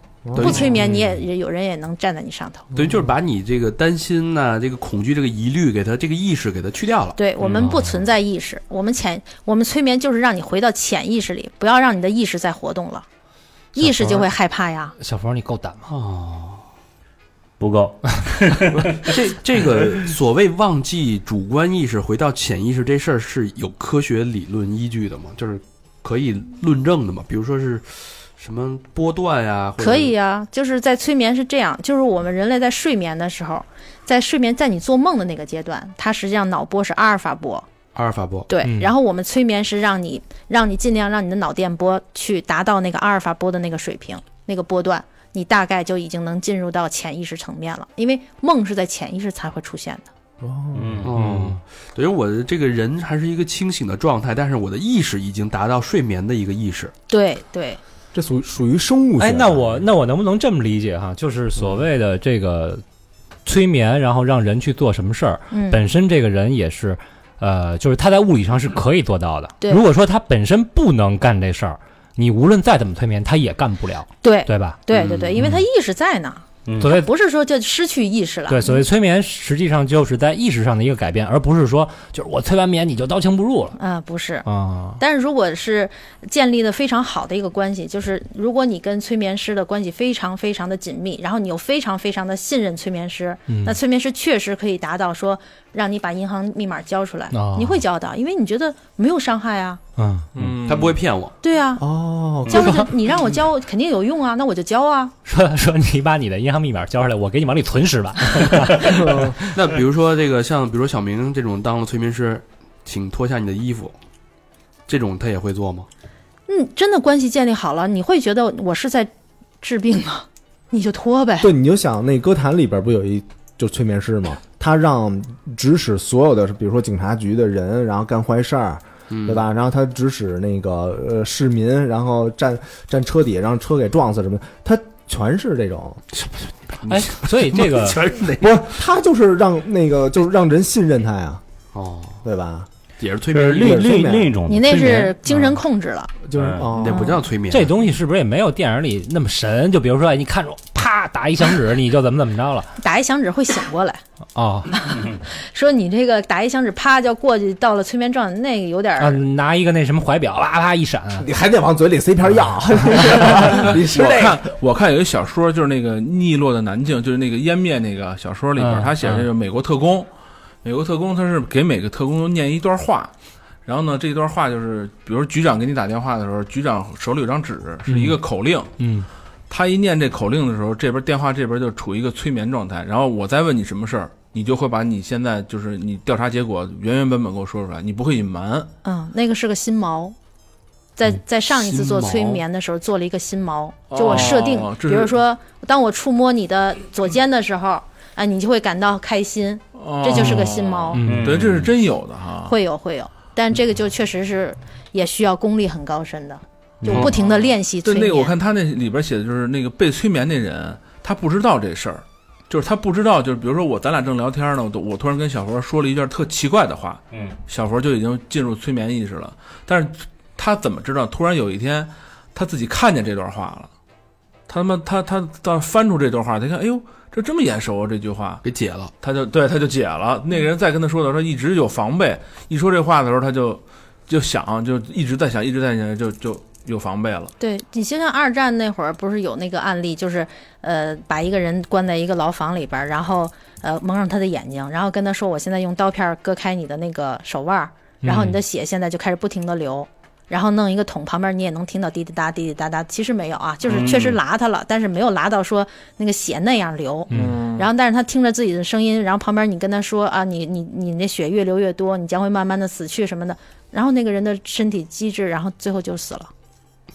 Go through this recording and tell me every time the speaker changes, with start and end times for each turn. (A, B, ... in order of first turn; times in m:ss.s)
0:00.2-0:00.7 A
0:00.3-0:01.0 B
0:00.4-0:02.7 C
0:02.7-0:07.2 B
0:02.8-0:03.0 A
0:07.2-0:13.0 C
0:07.6-0:07.9 D
0:13.7-0:14.9 C
0:13.8-0:14.3 D
0:15.0-0:15.8 D
0:15.9-0:16.6 B
0:17.6-0:19.1 E
0:18.8-0:30.1 B
0:29.8-0:37.6 C
0:37.9-0:38.5 B
0:38.5-0:50.1 C
0:38.6-0:38.9 D
0:50.4-0:51.1 A
0:50.7-0:51.1 E
0:51.0-0:56.9 B
0:51.2-0:51.5 D
0:57.1-0:57.8 C
0:58.1-0:59.8 A
0:59.2-1:02.8 D
1:03.4-1:14.8 D
1:05.5-1:05.8 C
1:14.2-1:18.8 C
1:15.0-1:15.3 B
1:15.3-1:15.6 D
1:16.8-1:17.1 D
1:18.5-1:23.8 D
1:23.8-1:24.5 C
1:24.4-1:25.0 D
1:25.0-1:39.8 C
1:33.5-1:33.8 D
1:37.3-1:37.8 D
1:40.0-1:40.3 D
1:40.3-1:41.0 F
1:40.6-1:41.3 B
1:41.4-1:41.8 C
1:41.8-1:42.9 A
1:42.4-1:45.1 C
1:45.2-1:49.5 D
1:48.9-1:49.4 A
1:49.5-1:53.9 B
1:54.9-1:55.9 B
1:56.5-1:59.1 C
1:59.6-2:01.5 C
2:01.4-2:16.0 A
2:09.1-2:09.4 B
2:16.1-2:18.7 B
2:16.9-2:18.0 D
2:18.4-2:21.4 A
2:21.7-2:22.2 B
2:22.2-2:22.7 A
2:23.0-2:23.8 B
2:23.3-2:25.1 E
2:23.5-2:24.4 A
2:24.5-2:26.1 C
2:24.7-2:25.6 D
2:26.2-2:27.1 A
2:26.4-2:26.7 E
2:26.7-2:27.7 B
2:26.9-2:27.2 C
2:27.5-2:32.7 D
2:32.8-2:34.0 C
2:34.3-2:34.8 D
2:34.7-2:39.2 C
2:39.0-2:41.3 D
2:41.2-2:44.4 A
2:42.9-2:43.4 D
2:43.5-2:50.1 F
2:48.6-2:49.3 D
2:50.6-2:53.1 F
2:53.6-2:58.7 F
2:57.9-2:58.2 D
2:58.8-2:59.1 D
2:59.5-3:08.7 F
3:08.8-3:10.1 C
3:11.0-3:21.0 C
3:11.5-3:12.4 B
3:13.9-3:15.2 F
3:19.7-3:22.5 F
3:20.1-3:21.3 D
3:21.0-3:21.7 E
3:22.4-3:28.3 C
3:26.8-3:27.1 E
3:26.9-3:27.1 B
3:27.0-3:43.7 F
3:37.1-3:37.4 E
3:44.5-3:48.4 F
3:48.4-3:48.9 B
3:49.0-3:57.3 F
3:57.4-4:26.3 C
4:08.0-4:08.4 D
4:13.6-4:14.2 E
4:17.1-4:17.4 D
4:17.2-4:17.6 A